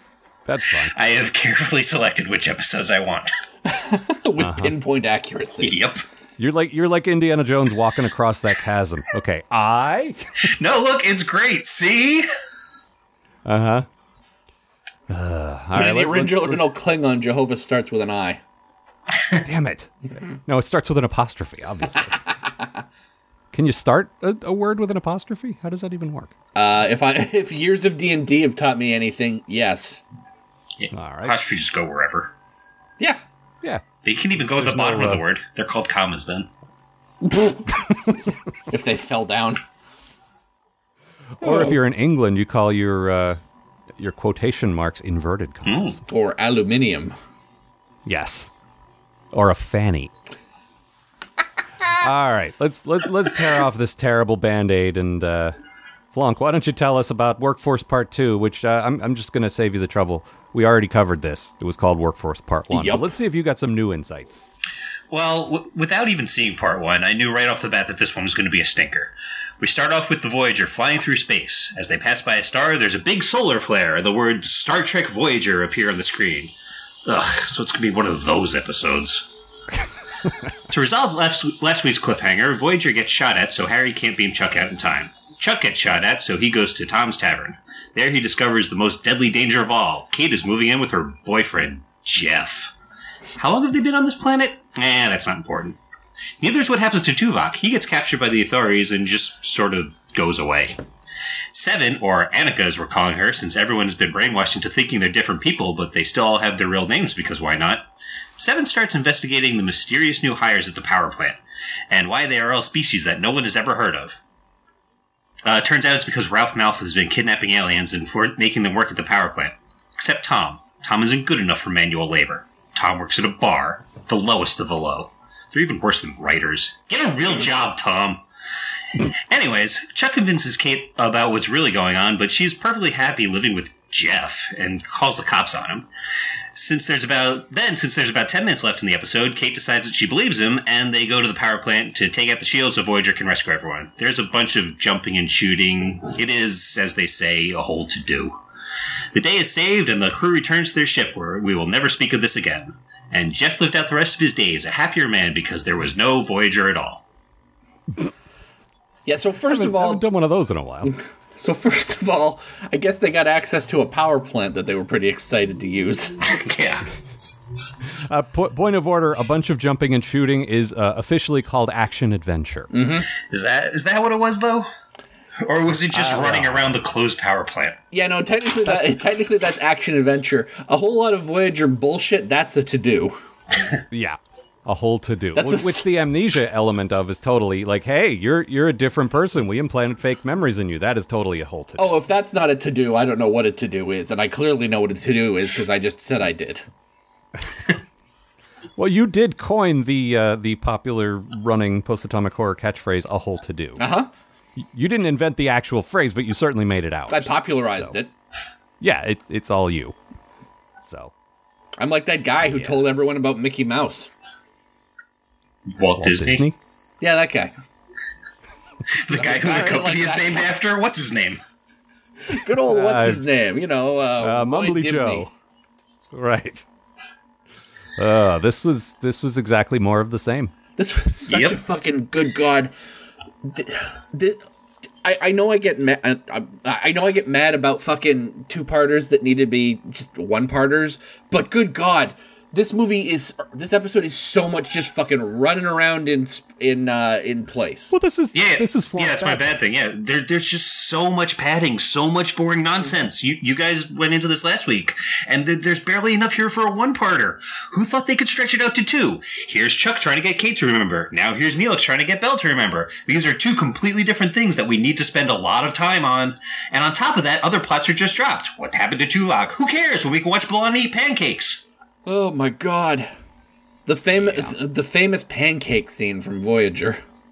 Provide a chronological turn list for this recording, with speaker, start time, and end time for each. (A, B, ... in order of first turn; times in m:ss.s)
0:00.4-0:00.9 A
0:00.9-0:03.3 B
0:03.6-0:05.8 C
0:04.4-0:04.8 A
0:05.6-0:06.0 B
0:06.4-0:10.5 A
0:10.5-0:12.2 B
0:13.4-0:13.9 A
0:15.1-0:16.7 A
0:15.7-0:18.4 C
0:19.4-0:22.2 A
0:23.5-0:26.3 A
0:26.5-0:30.0 C
0:30.8-0:32.3 B
0:30.9-0:31.4 A
0:34.0-0:36.5 B
0:34.3-0:35.2 A
0:37.2-0:37.6 C
0:38.7-0:39.6 C
0:41.4-0:43.4 A
0:41.4-0:41.7 C
0:44.0-0:46.0 A
0:45.6-0:46.0 B
0:46.1-0:47.1 C
0:48.0-0:48.5 A
0:49.3-0:50.1 A
0:52.0-0:55.5 A
0:56.1-1:04.4 A
1:02.7-1:03.1 C
1:05.1-1:16.5 B
1:17.0-1:19.3 B
1:20.7-1:32.7 B
1:33.4-1:35.8 B
1:36.4-1:40.8 B
1:41.5-1:47.8 B
1:48.4-1:51.4 B
1:51.9-1:54.2 B
1:55.4-2:08.2 B
2:09.3-2:15.9 B
2:16.5-2:28.4 B
2:29.1-2:37.0 B
2:39.0-2:40.0 C
2:39.5-2:40.9 A
2:40.8-2:46.2 C
2:46.2-2:46.8 B
2:48.0-2:52.7 A
2:52.7-2:53.1 C
2:53.3-2:54.7 B
2:55.4-2:57.8 B
2:55.9-2:56.7 A
2:57.9-3:03.2 C
3:03.9-3:12.0 A
3:05.3-3:05.8 C
3:11.8-3:16.6 C
3:18.8-3:23.8 A
3:23.8-3:24.1 C
3:24.6-3:27.9 A
3:27.1-3:28.1 C
3:28.8-3:29.9 A
3:30.8-3:31.1 A
3:31.8-3:34.1 C
3:32.4-3:32.8 A
3:35.7-3:36.4 B
3:36.0-3:36.6 A
3:37.0-3:37.5 C
3:38.9-3:41.4 B
3:39.1-3:40.5 C
3:42.3-3:45.3 C
3:42.6-3:43.2 A
3:44.2-3:45.3 A
3:46.1-3:46.6 A
3:48.0-3:50.5 A
3:50.8-3:52.7 C
3:51.3-3:51.6 B
3:53.4-3:54.4 C
3:55.0-4:07.9 C
4:07.9-4:09.6 A
4:08.3-4:31.6 B
4:32.0-4:33.1 C
4:33.8-4:37.0 C
4:34.2-4:34.5 A